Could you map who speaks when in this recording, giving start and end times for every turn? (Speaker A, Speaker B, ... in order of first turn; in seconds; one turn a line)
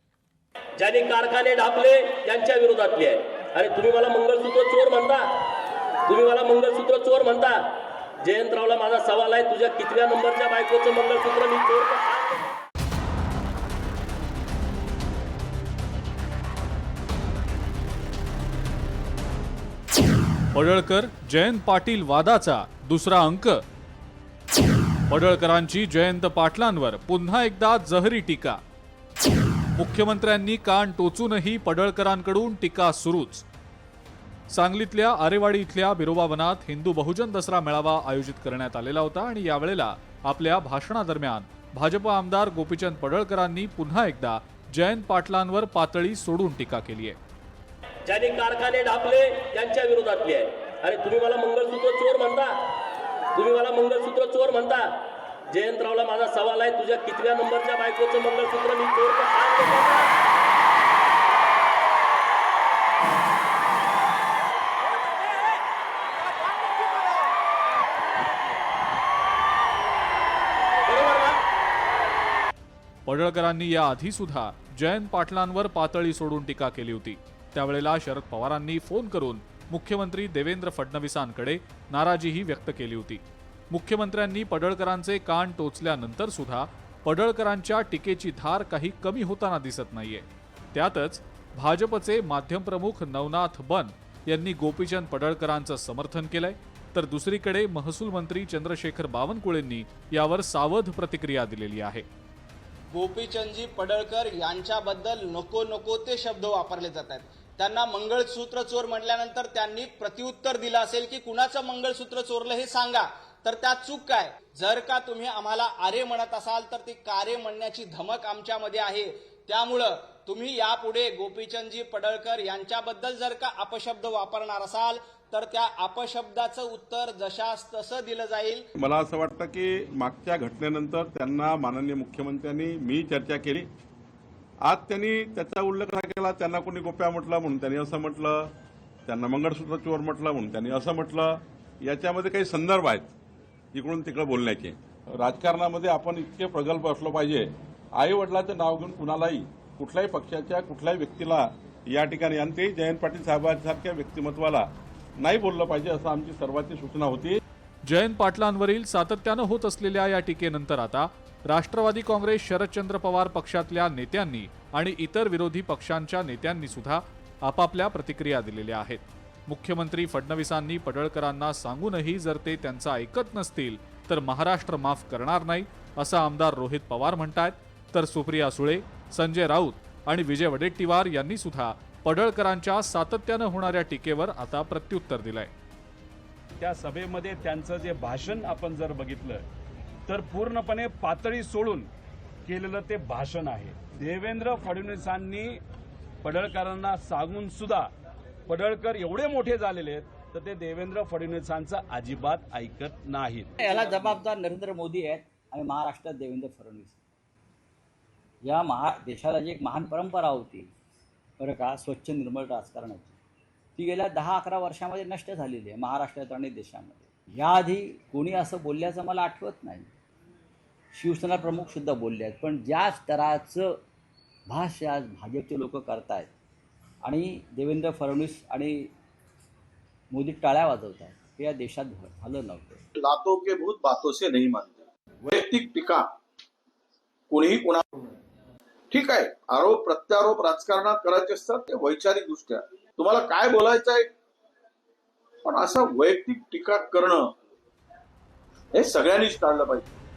Speaker A: 0.8-5.3
Speaker A: 6.1-7.6
Speaker A: 8.2-12.5
Speaker B: 20.5-23.6
Speaker B: 25.1-28.6
Speaker B: 29.8-33.5
Speaker B: 34.5-47.2
Speaker A: 48.0-52.6
Speaker A: 53.3-54.9
Speaker A: 55.5-60.1
Speaker A: 70.9-71.4
Speaker B: 73.0-102.0
Speaker C: 102.9-128.7
Speaker D: 128.8-133.7
Speaker D: 134.6-138.5
Speaker D: 139.1-143.1
Speaker D: 143.7-154.7
Speaker D: 155.2-157.4
Speaker B: 157.9-185.5
Speaker E: 186.6-189.4
Speaker E: 190.1-191.9
Speaker E: 192.4-195.6
Speaker E: 196.2-197.9
Speaker E: 198.5-204.2
Speaker F: 203.6-207.0
Speaker F: 208.4-210.7
Speaker F: 211.4-213.2
Speaker F: 213.8-219.9
Speaker F: 220.9-223.8
Speaker F: 224.5-226.3
Speaker F: 227.0-228.9
Speaker F: 230.1-232.8
Speaker G: 232.9-236.1
Speaker G: 237.3-237.8
Speaker G: 238.9-244.1
Speaker G: 245.4-247.3
Speaker G: 248.7-249.9